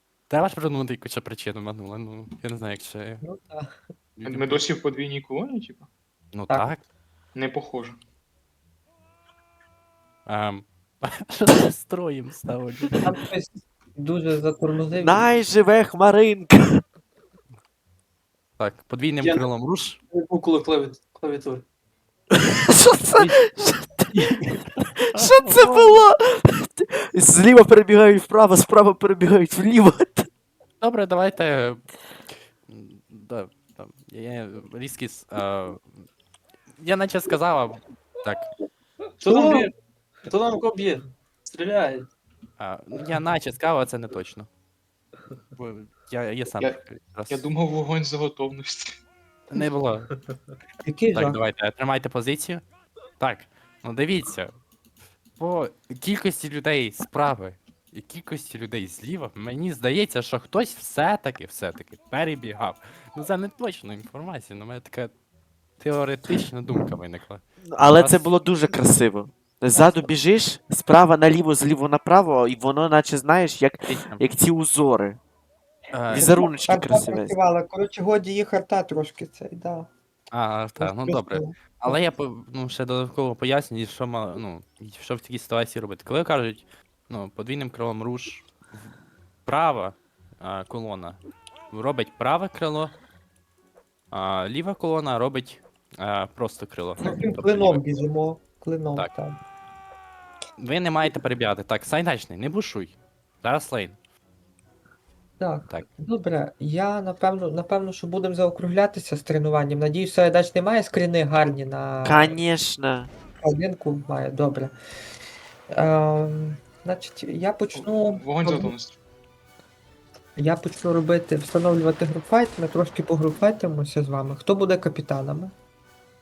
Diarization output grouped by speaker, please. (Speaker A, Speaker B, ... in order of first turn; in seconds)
Speaker A: 0.3-3.2, 4.2-4.6, 6.3-6.8, 10.3-13.2, 18.6-20.0, 25.1-25.8, 30.8-31.8, 32.7-36.0, 36.8-38.5, 42.6-44.5, 45.5-47.5, 49.5-50.1, 51.1-52.6, 53.2-54.5, 55.4-65.1, 65.8-68.3, 73.9-74.2, 75.9-76.3, 80.3-88.5, 89.5-91.2, 91.7-93.0, 94.1-97.8, 100.6-104.0
Speaker B: 3.2-3.8, 13.0-15.3, 39.3-39.7, 50.9-51.4, 69.7-70.0, 76.2-79.9, 80.8-82.0, 97.0-99.4, 105.4-112.4, 113.4-114.7, 115.7-118.7, 120.4-125.5
Speaker C: 4.3-5.9, 7.3-8.0, 47.3-49.0, 117.8-119.0
Speaker D: 15.0-16.8, 22.3-24.1, 24.9-30.3, 67.7-75.2, 76.1-77.3, 112.0-113.1
Speaker E: 19.2-19.5, 20.1-21.6, 39.2-39.7, 40.3-42.1